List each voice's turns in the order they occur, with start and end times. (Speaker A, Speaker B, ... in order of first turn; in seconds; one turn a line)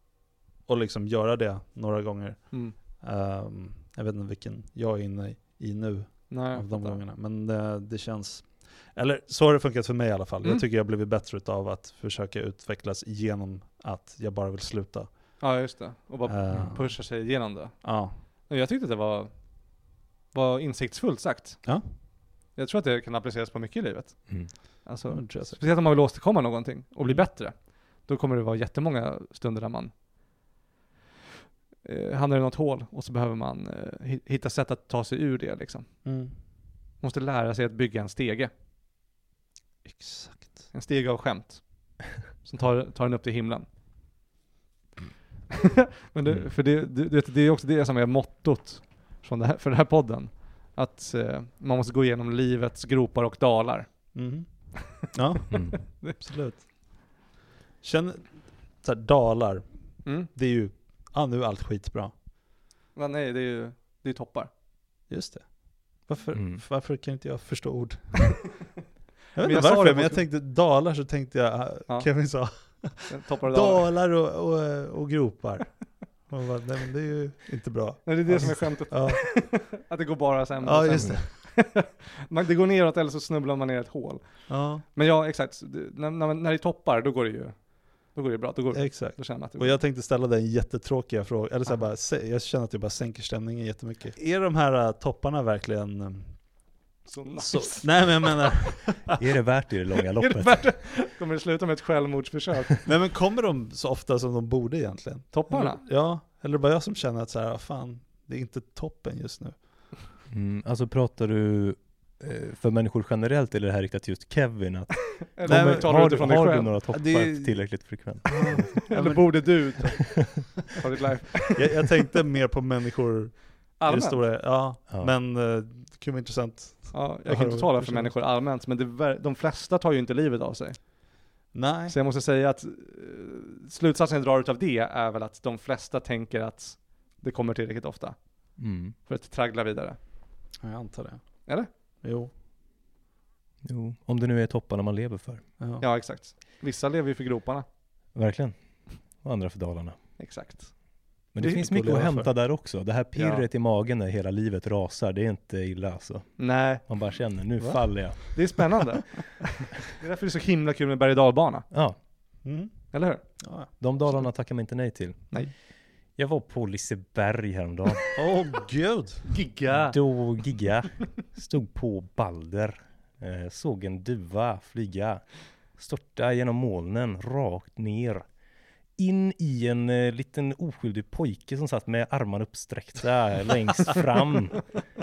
Speaker A: 0.7-15.4
Speaker B: 6.3-7.0
Speaker B: 15.4-19.5
Speaker A: 16.3-17.1
Speaker A: 17.8-18.1
Speaker B: 20.3-21.8
Speaker B: 22.6-29.9
Speaker A: 25.1-25.6
Speaker B: 31.8-35.9
Speaker A: 36.0-36.4
Speaker B: 37.0-38.5
Speaker A: 39.9-40.7
Speaker B: 40.7-43.7
Speaker B: 46.1-54.5
Speaker A: 54.1-57.3
Speaker C: 55.5-55.8
Speaker B: 55.5-56.2
Speaker A: 57.8-62.1
Speaker B: 63.0-64.5
Speaker A: 65.1-68.7
Speaker C: 66.3-66.6
Speaker A: 69.3-79.5
Speaker B: 69.4-70.2
Speaker B: 71.9-72.2
Speaker B: 72.8-73.9
Speaker B: 78.0-89.8
Speaker A: 80.6-81.3
Speaker A: 84.5-84.8
Speaker A: 88.7-96.6
Speaker B: 97.0-98.3
Speaker A: 97.4-99.2
Speaker C: 99.1-100.8
Speaker B: 100.2-102.8
Speaker A: 102.9-109.9
Speaker B: 105.3-105.8
Speaker C: 110.3-118.7
Speaker B: 115.3-116.7
Speaker A: 115.5-116.2
Speaker A: 116.9-120.0
Speaker B: 118.9-121.8
Speaker A: 121.6-128.2
Speaker B: 123.8-124.2
Speaker B: 126.9-131.1
Speaker A: 131.5-132.0
Speaker B: 131.9-140.0
Speaker C: 138.6-139.0
Speaker A: 140.6-141.5
Speaker A: 142.0-142.3
Speaker C: 143.6-145.4
Speaker A: 145.6-145.9
Speaker B: 145.8-147.7
Speaker C: 148.1-150.0
Speaker B: 150.2-150.9
Speaker C: 151.3-158.4
Speaker A: 151.4-152.3
Speaker B: 153.2-153.4
Speaker B: 156.4-156.8
Speaker A: 157.6-158.3
Speaker B: 158.3-161.7
Speaker C: 161.7-162.0
Speaker A: 162.4-163.7
Speaker B: 162.9-163.2
Speaker C: 163.8-165.4
Speaker C: 166.2-168.3
Speaker A: 168.2-169.3
Speaker B: 169.3-170.0
Speaker C: 169.7-178.3
Speaker C: 179.0-184.7